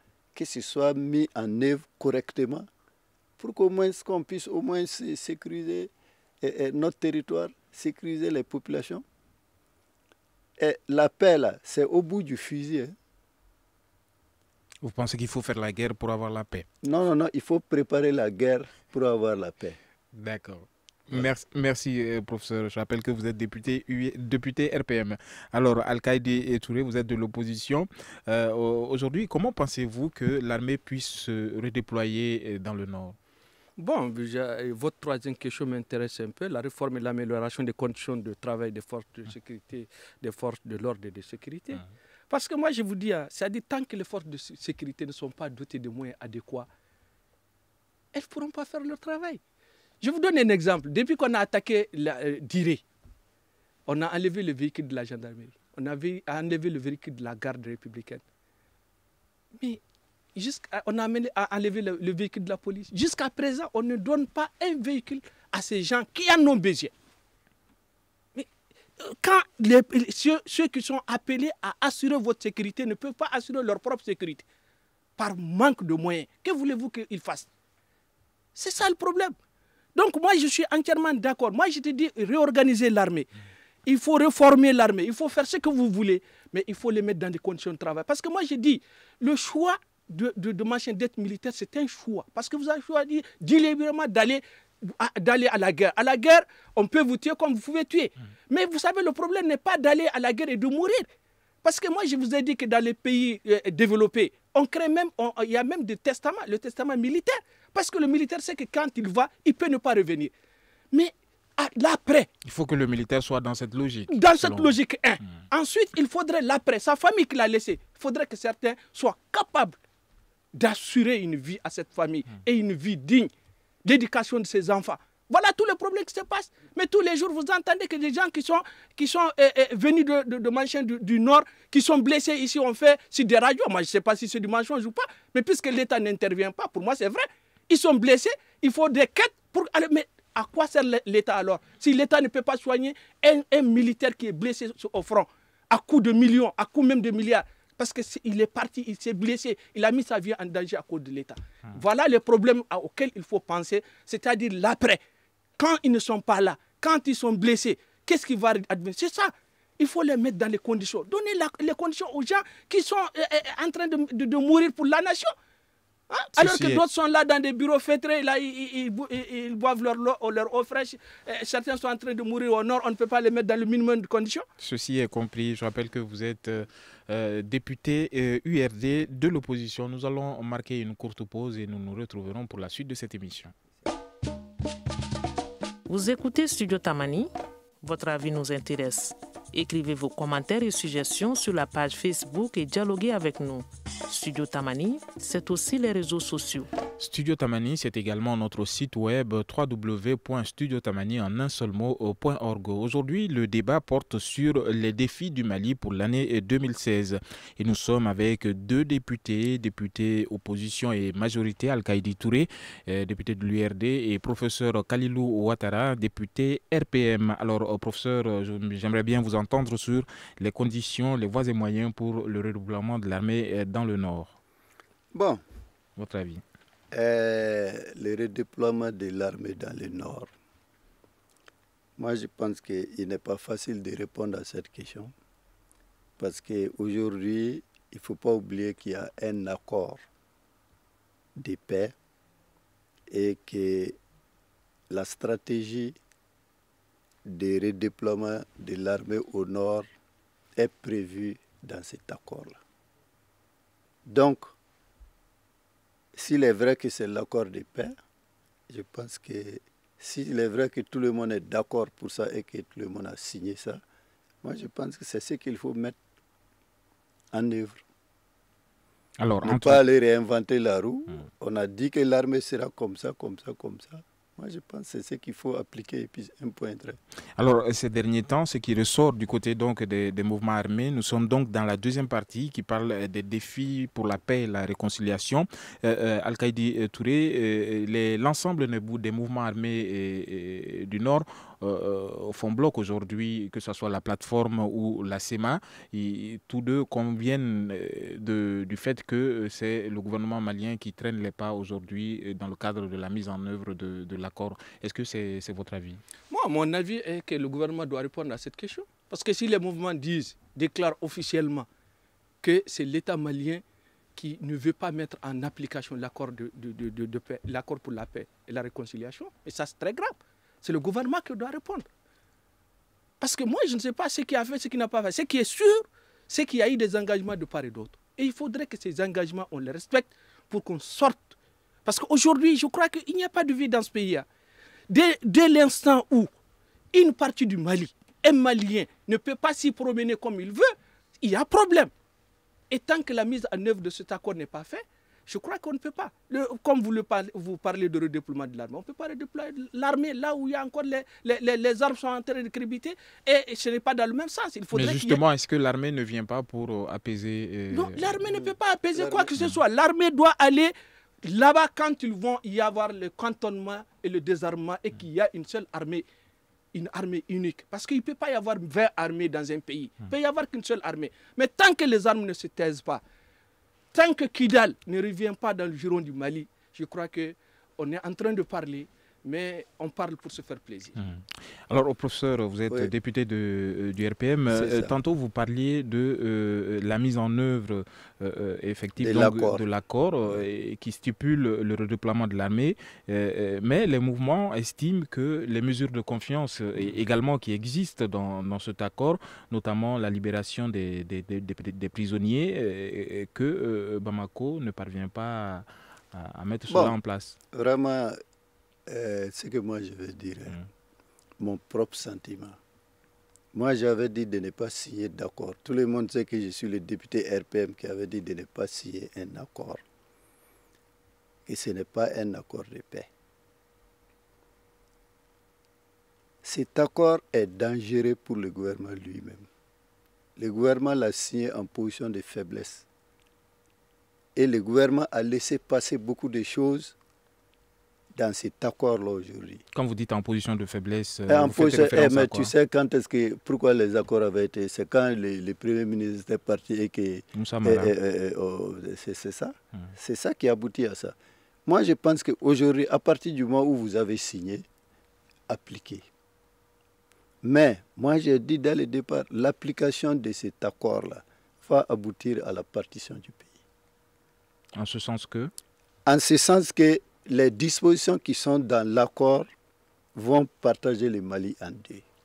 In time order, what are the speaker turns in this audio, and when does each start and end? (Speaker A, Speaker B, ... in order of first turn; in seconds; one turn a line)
Speaker A: 0.3-2.7
Speaker A: 3.4-9.0
Speaker A: 10.6-12.9
Speaker B: 14.8-16.6
Speaker A: 16.8-19.8
Speaker B: 20.1-33.2
Speaker C: 33.8-46.7
Speaker C: 48.1-49.4
Speaker C: 50.0-52.8
Speaker C: 53.9-58.2
Speaker C: 60.4-66.9
Speaker C: 68.3-74.4
Speaker C: 75.2-77.5
Speaker C: 78.5-79.3
Speaker C: 79.9-83.3
Speaker C: 83.8-101.1
Speaker C: 101.6-110.3
Speaker C: 110.9-112.3
Speaker B: 112.4-114.8
Speaker C: 114.1-119.8
Speaker C: 120.5-123.3
Speaker C: 123.8-155.0
Speaker C: 155.6-165.3
Speaker C: 166.1-174.4
Speaker B: 166.4-166.8
Speaker B: 174.6-183.5
Speaker D: 185.9-187.3
Speaker D: 187.8-196.7
Speaker B: 197.0-224.3
Speaker A: 225.1-225.4
Speaker B: 226.0-226.4
Speaker A: 226.9-230.3
Speaker A: 232.0-235.1
Speaker A: 236.2-240.0
Speaker A: 241.3-241.9
Speaker A: 243.1-244.0
Speaker A: 244.9-246.0
Speaker A: 247.2-249.9
Speaker A: 250.6-252.6
Speaker A: 254.1-254.5
Speaker A: 256.1-258.0
Speaker A: 258.7-263.8
Speaker A: 264.4-265.9
Speaker A: 267.3-267.8
Speaker B: 269.2-269.8
Speaker A: 269.4-277.0
Speaker B: 277.4-306.0
Speaker C: 306.3-311.7
Speaker C: 312.4-313.6
Speaker C: 314.1-321.9
Speaker C: 323.2-334.3
Speaker C: 334.9-336.3
Speaker C: 336.9-341.9
Speaker C: 342.7-355.2
Speaker B: 354.7-358.2
Speaker C: 357.7-366.0
Speaker A: 358.3-359.3
Speaker C: 366.7-373.0
Speaker C: 373.9-381.0
Speaker B: 381.0-407.4
Speaker A: 384.5-384.9
Speaker A: 389.0-389.6
Speaker A: 406.7-406.9
Speaker A: 407.5-408.2
Speaker A: 408.9-410.6
Speaker A: 411.4-412.6
Speaker A: 413.5-419.8
Speaker A: 421.4-423.1
Speaker A: 426.4-429.4
Speaker A: 430.4-432.8
Speaker A: 434.4-436.9
Speaker A: 438.1-439.6
Speaker B: 439.7-442.5
Speaker A: 441.3-454.6
Speaker B: 447.3-447.9
Speaker A: 455.5-456.1
Speaker A: 457.4-463.5
Speaker B: 464.8-465.5
Speaker A: 466.1-469.5
Speaker A: 470.1-472.0